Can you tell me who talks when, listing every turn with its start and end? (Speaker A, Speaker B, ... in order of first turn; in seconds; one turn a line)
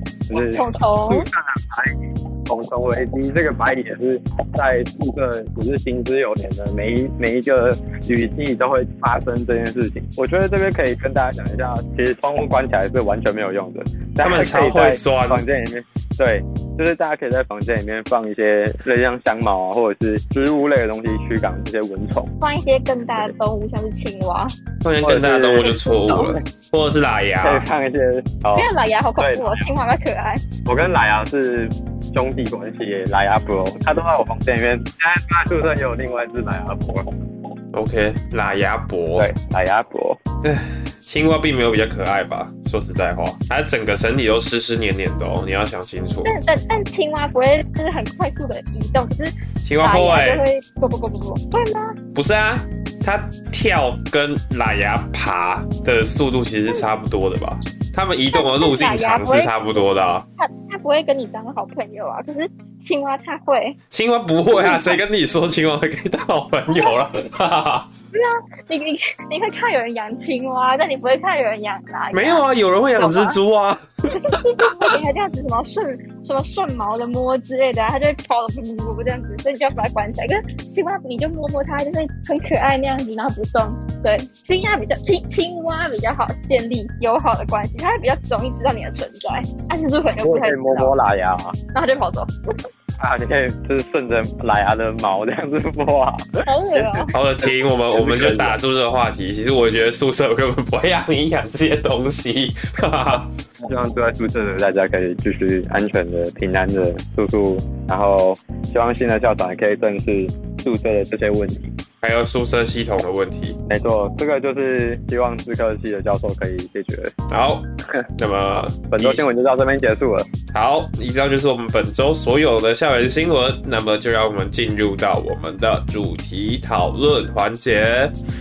Speaker A: 0.3-2.0
Speaker B: 0.3-1.3
Speaker A: 2.5-22.3
Speaker C: 14.2-15.4
Speaker B: 22.4-24.5
Speaker C: 24.8-27.6
Speaker A: 25.0-25.8
Speaker B: 25.6-26.4
Speaker A: 27.4-29.7
Speaker B: 28.6-30.4
Speaker A: 30.6-37.1
Speaker C: 37.7-39.3
Speaker A: 39.2-40.2
Speaker C: 40.4-46.4
Speaker B: 46.2-52.0
Speaker C: 49.6-50.4
Speaker C: 52.1-60.2
Speaker B: 58.3-59.6
Speaker B: 60.4-63.8
Speaker C: 63.9-67.9
Speaker B: 64.5-65.0
Speaker B: 66.7-66.9
Speaker B: 68.1-73.4
Speaker C: 72.1-75.0
Speaker B: 74.1-90.9
Speaker A: 90.2-91.6
Speaker B: 91.7-92.3
Speaker A: 93.0-98.6
Speaker B: 96.5-97.1
Speaker C: 97.1-103.3
Speaker A: 103.6-111.8
Speaker C: 112.0-113.6
Speaker A: 113.7-117.2
Speaker C: 117.3-117.7
Speaker C: 118.2-119.3
Speaker A: 118.9-120.3
Speaker C: 120.5-128.1